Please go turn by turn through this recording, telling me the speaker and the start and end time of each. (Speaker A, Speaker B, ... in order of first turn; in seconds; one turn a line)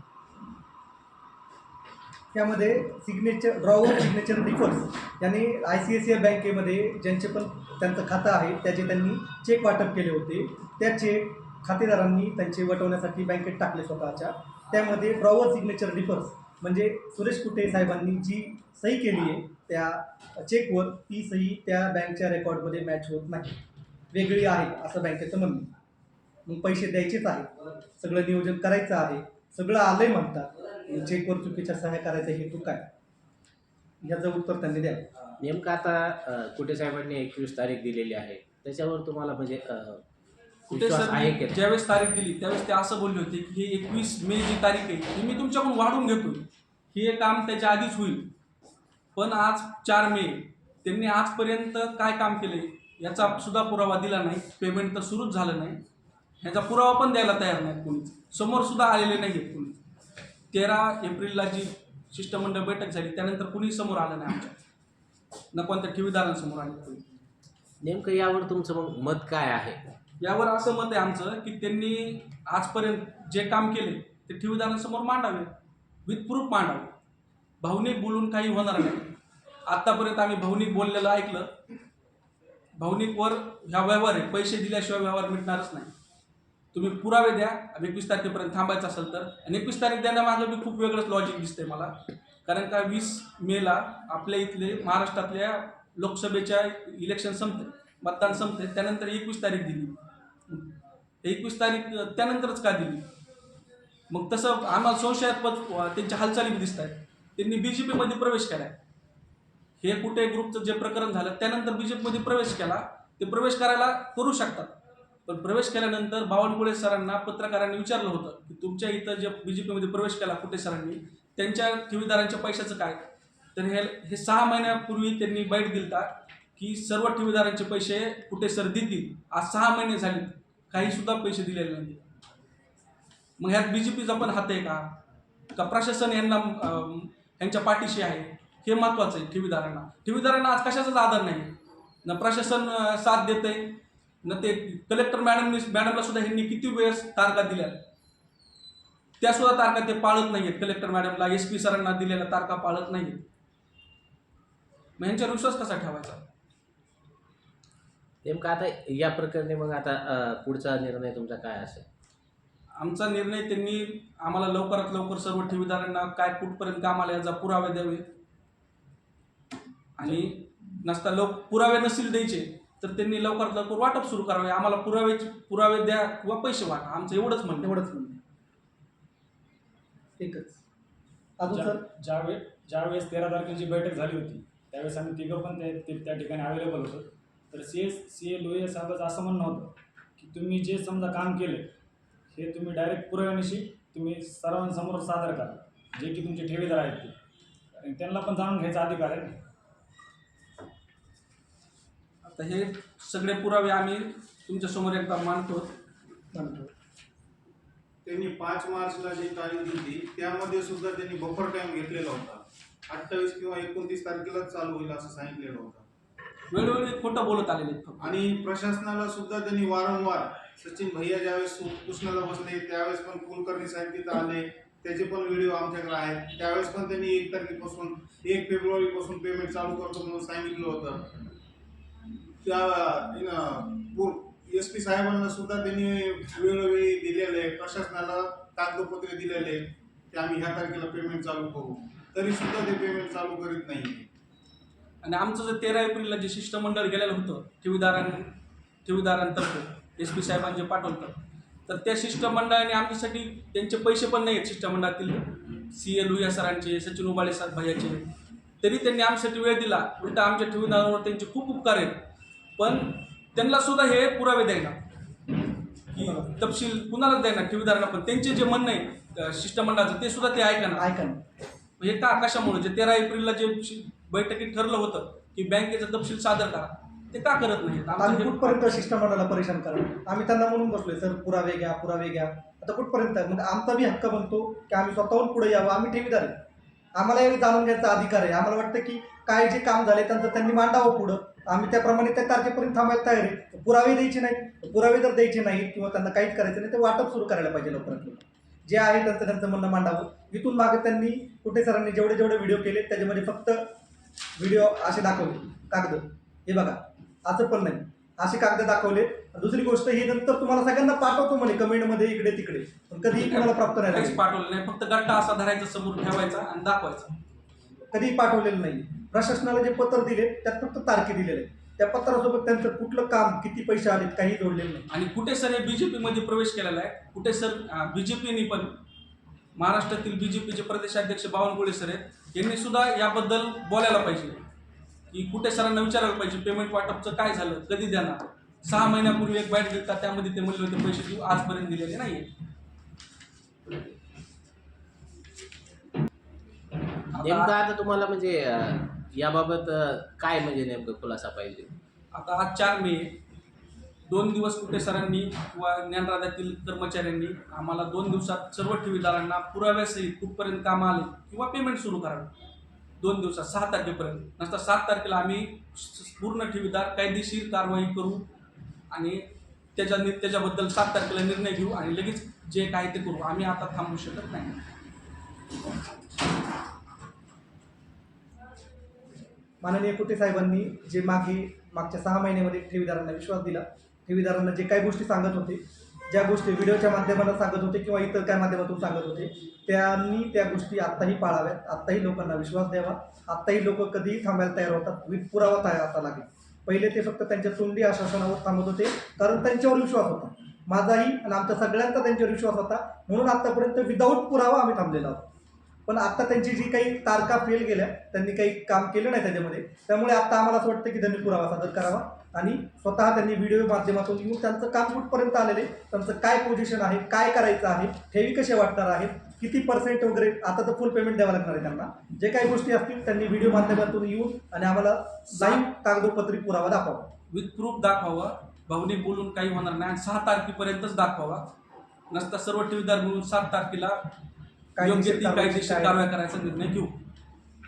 Speaker A: 2.3-23.6
Speaker A: 24.1-25.7
Speaker A: 26.5-32.9
Speaker A: 34.0-35.1
Speaker B: 35.4-40.0
Speaker B: 40.7-41.6
Speaker C: 40.7-48.3
Speaker C: 49.2-55.8
Speaker C: 56.4-59.8
Speaker C: 60.5-64.6
Speaker C: 65.5-67.0
Speaker B: 67.8-69.8
Speaker C: 70.2-75.5
Speaker C: 76.1-77.0
Speaker C: 77.6-79.1
Speaker C: 79.7-81.6
Speaker C: 82.8-85.9
Speaker C: 86.7-91.9
Speaker C: 92.5-100.7
Speaker C: 101.2-103.1
Speaker C: 104.1-108.8
Speaker C: 109.8-132.0
Speaker C: 133.4-135.0
Speaker C: 135.5-147.8
Speaker C: 149.2-153.3
Speaker C: 155.0-156.2
Speaker B: 158.2-161.9
Speaker C: 162.8-168.1
Speaker C: 170.0-177.7
Speaker A: 177.6-178.2
Speaker A: 180.2-180.6
Speaker A: 181.4-181.8
Speaker D: 181.5-191.7
Speaker D: 192.3-197.2
Speaker D: 197.8-199.4
Speaker C: 202.2-205.8
Speaker A: 206.3-206.7
Speaker E: 208.1-215.9
Speaker C: 216.5-218.2
Speaker E: 218.0-231.1
Speaker E: 232.4-244.1
Speaker C: 245.0-258.1
Speaker C: 258.6-262.1
Speaker C: 262.6-264.9
Speaker C: 265.9-270.8
Speaker A: 266.0-266.3
Speaker A: 270.8-271.2
Speaker C: 271.8-278.9
Speaker A: 278.0-286.3
Speaker A: 287.0-303.6
Speaker A: 304.4-314.2
Speaker C: 313.2-317.1
Speaker A: 317.9-324.9
Speaker C: 324.9-328.8
Speaker C: 329.6-334.5
Speaker C: 335.1-342.3
Speaker C: 347.2-347.6
Speaker B: 347.2-351.7
Speaker C: 352.1-353.2
Speaker C: 354.1-362.3
Speaker C: 363.0-368.3
Speaker C: 368.9-374.6
Speaker A: 379.6-405.2
Speaker A: 405.9-427.1
Speaker C: 425.3-425.7
Speaker C: 427.3-431.5
Speaker C: 432.1-434.1
Speaker A: 434.8-436.1
Speaker C: 434.8-437.0